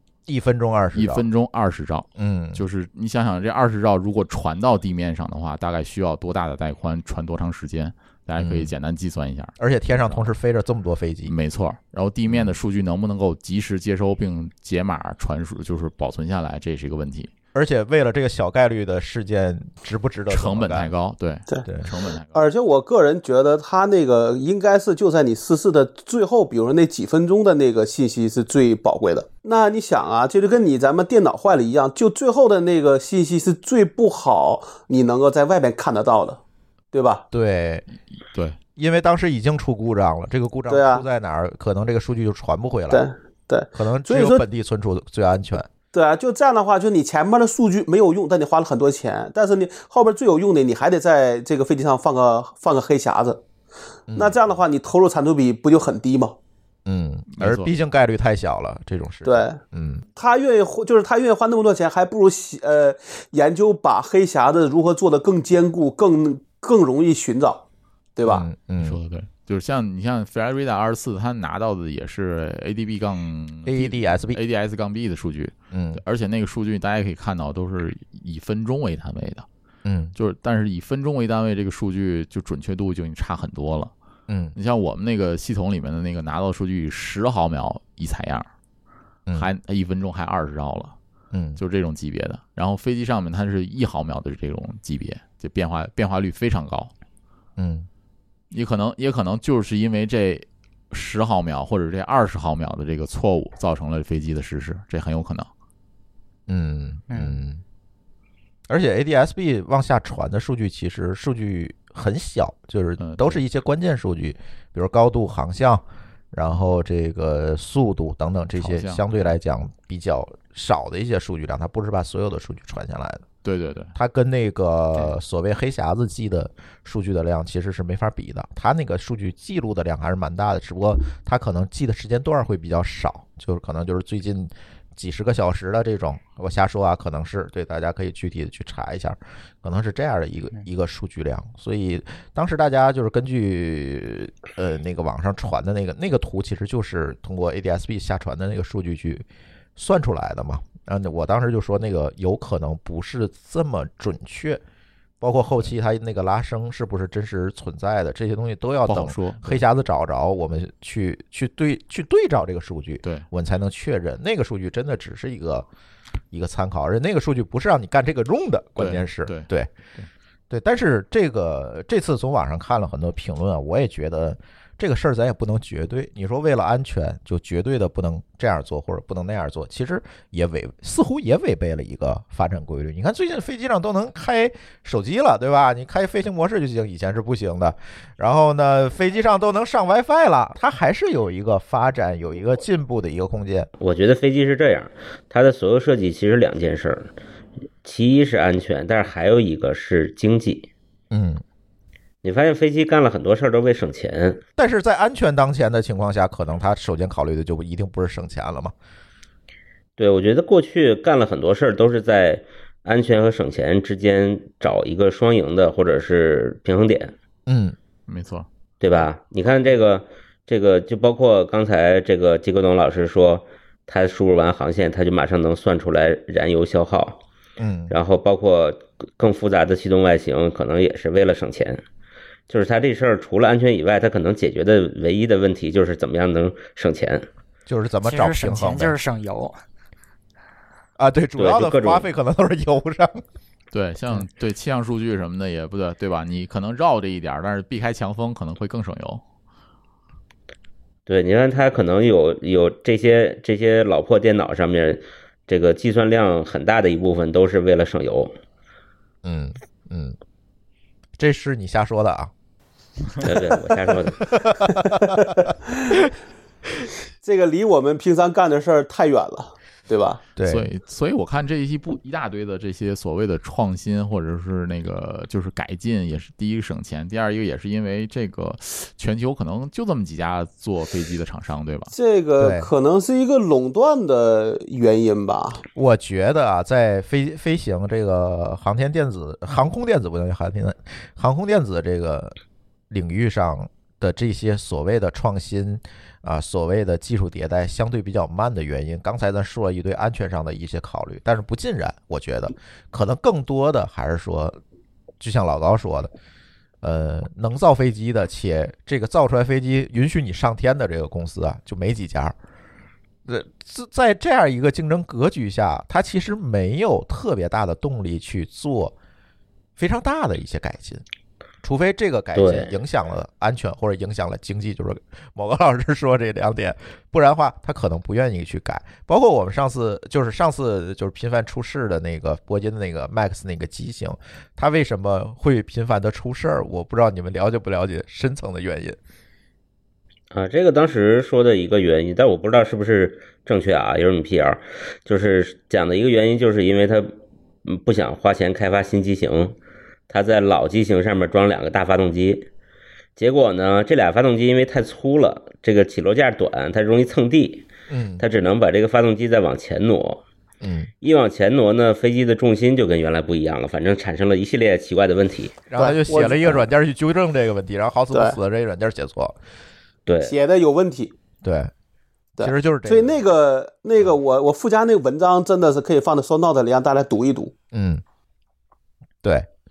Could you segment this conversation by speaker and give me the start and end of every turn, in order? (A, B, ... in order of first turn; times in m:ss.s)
0:00.3-0:01.2 A
0:00.9-0:10.3 B
0:02.2-0:02.6 A
0:08.4-0:08.7 A
0:09.6-0:11.3 A
0:11.2-0:17.3 B
0:12.3-0:12.6 A
0:17.5-0:20.9 A
0:20.3-0:22.5 B
0:22.3-0:36.4 C
0:36.9-0:37.2 C
0:37.3-0:37.9 A
0:38.8-0:43.1 A
0:40.7-0:41.0 C
0:42.9-0:44.4 C
0:43.7-0:45.7 A
0:45.9-0:53.4 C
0:54.1-0:54.4 A
0:54.2-0:56.4 C
0:56.9-1:00.0 A
0:57.3-0:57.7 B
0:59.2-0:59.6 C
1:00.2-1:07.6 C
1:08.2-1:08.5 C
1:08.2-1:09.0 A
1:08.8-1:19.5 B
1:13.7-1:14.4 A
1:15.7-1:16.0 A
1:19.8-1:20.2 A
1:20.2-1:23.9 B
1:24.3-1:24.6 A
1:24.6-1:28.5 B
1:29.3-1:31.0 B
1:31.3-1:31.6 A
1:31.6-1:36.9 B
1:37.6-1:37.9 A
1:38.5-1:45.5 B
1:46.5-1:47.6 A
1:47.1-1:47.4 D
1:48.7-2:03.3 A
1:53.0-1:53.4 B
1:58.6-1:59.0 B
2:03.4-2:03.9 B
2:04.0-2:34.6 A
2:35.2-2:45.7 A
2:38.9-2:39.6 B
2:46.3-2:49.7 A
2:48.8-2:50.1 B
2:50.5-3:13.7 A
3:13.8-3:17.1 E
3:17.8-3:20.7 E
3:21.1-3:21.4 A
3:22.2-3:24.4 E
3:24.6-3:28.7 A
3:30.0-3:37.2 E
3:37.5-3:37.8 A
3:38.1-3:38.5 B
3:38.8-3:47.2 E
3:47.6-3:47.9 A
3:47.9-3:51.8 E
3:52.5-3:57.3 E
3:57.7-3:59.0 A
3:58.0-3:59.6 D
4:01.0-4:03.2 A
4:01.4-4:02.1 E
4:03.7-4:09.2 B
4:11.1-4:18.3 E
4:19.2-4:20.2 A
4:21.2-4:22.3 A
4:23.2-4:24.3 E
4:24.3-4:25.4 A
4:24.7-4:25.4 C
4:27.2-4:30.2 C
4:30.4-4:30.7 A
4:30.4-4:41.9 B
4:41.9-4:45.6 C
4:42.4-4:42.7 A
4:45.8-4:52.4 A
4:52.9-5:04.6 A
5:05.2-5:06.1 A
5:06.8-5:12.4 A
5:13.3-5:18.9 A
5:19.8-5:21.0 A
5:21.6-5:39.0 A
5:22.4-5:22.7 E
5:40.3-5:47.1 E
5:47.7-5:49.6 E
5:50.1-5:52.5 E
5:53.2-5:57.7 E
5:57.9-5:58.2 A
5:58.2-6:00.2 E
6:00.6-6:00.9 A
6:01.0-6:05.6 E
6:05.7-6:09.4 A
6:05.8-6:06.7 C
6:08.1-6:08.4 C
6:10.1-6:10.4 E
6:10.2-6:11.1 C
6:11.4-6:11.7 A
6:12.4-6:17.5 C
6:12.4-6:13.2 A
6:17.7-6:18.0 A